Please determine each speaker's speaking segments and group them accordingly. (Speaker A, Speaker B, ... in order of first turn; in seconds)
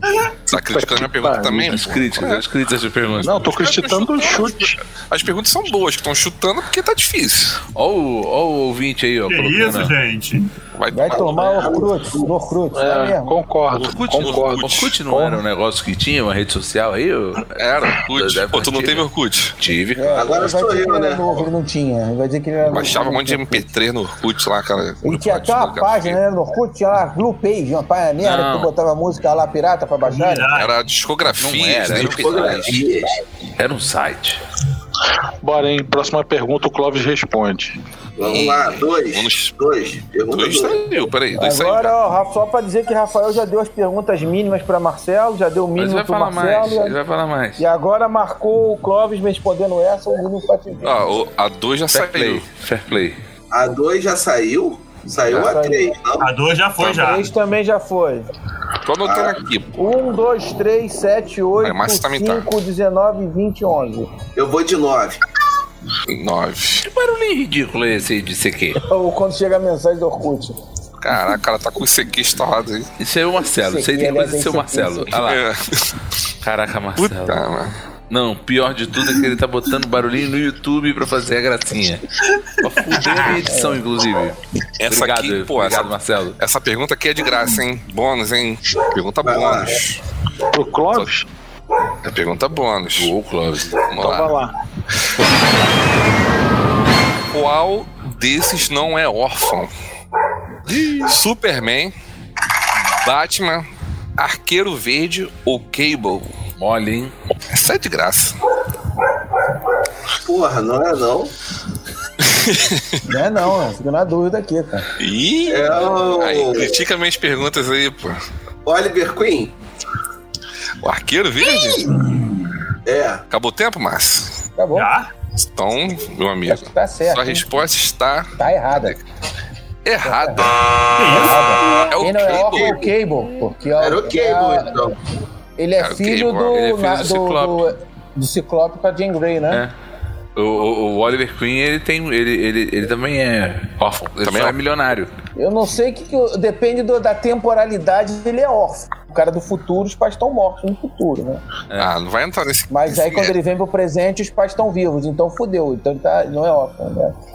Speaker A: 0.5-2.4, 3.3-7.6, 10.8-11.6, 14.2-14.9, 17.6-19.6, 22.7-26.2, 30.5-32.8, 38.2-39.6, 40.3-41.9, 50.8-52.5, 58.8-59.8, 61.6-62.5, 66.1-66.9, 71.0-72.9, 75.2-75.9, 77.0-77.8, 84.8-90.0, 92.0-93.1, 93.9-94.4, 97.3-99.7, 101.0-101.9, 102.9-103.7, 104.2-106.3, 107.5-108.4, 112.2-113.0, 115.0-118.2, 120.8-121.9, 123.3-124.3, 125.4-129.0, 129.8-130.6, 132.0-132.4, 135.8-136.6, 144.2-144.6, 151.8-153.4
Speaker B: 0.5-1.7, 3.2-4.8, 12.7-15.4, 35.4-37.8, 90.5-91.3, 94.0-94.5
Speaker C: 1.7-3.4, 7.7-9.9, 13.7-19.1, 19.6-20.4, 28.2-28.7, 31.4-32.8, 33.6-34.4, 45.8-47.7, 51.9-53.2, 66.8-68.8, 73.0-75.4, 76.4-77.5, 78.1-82.0, 82.6-86.4, 93.0-93.9, 100.7-101.1, 106.6-107.1, 131.9-132.7, 136.5-137.7, 140.4-145.1, 151.7-151.9
Speaker D: 9.3-10.5, 30.1-30.7, 56.2-57.3, 121.9-122.2, 124.7-125.1, 131.0-131.4
Speaker E: 10.9-13.4, 19.9-23.7, 25.0-30.5, 41.4-47.0, 47.6-51.1, 55.3-55.9, 56.9-58.3, 59.8-64.2, 68.8-70.5, 73.6-75.1, 83.3-83.8, 113.0-114.9, 124.6-124.9, 126.5-127.5, 128.4-129.0, 130.0-130.5, 131.1-134.7, 135.6-139.6, 145.3-151.4, 152.7-157.2
Speaker F: 11.1-12.3, 20.1-21.3, 31.9-33.2, 38.2-41.1, 53.5-56.3, 59.0-59.4, 64.4-65.2, 89.2-89.8, 110.2-111.3, 115.5-116.7, 118.7-119.5, 122.8-123.2, 132.4-132.8, 133.8-135.0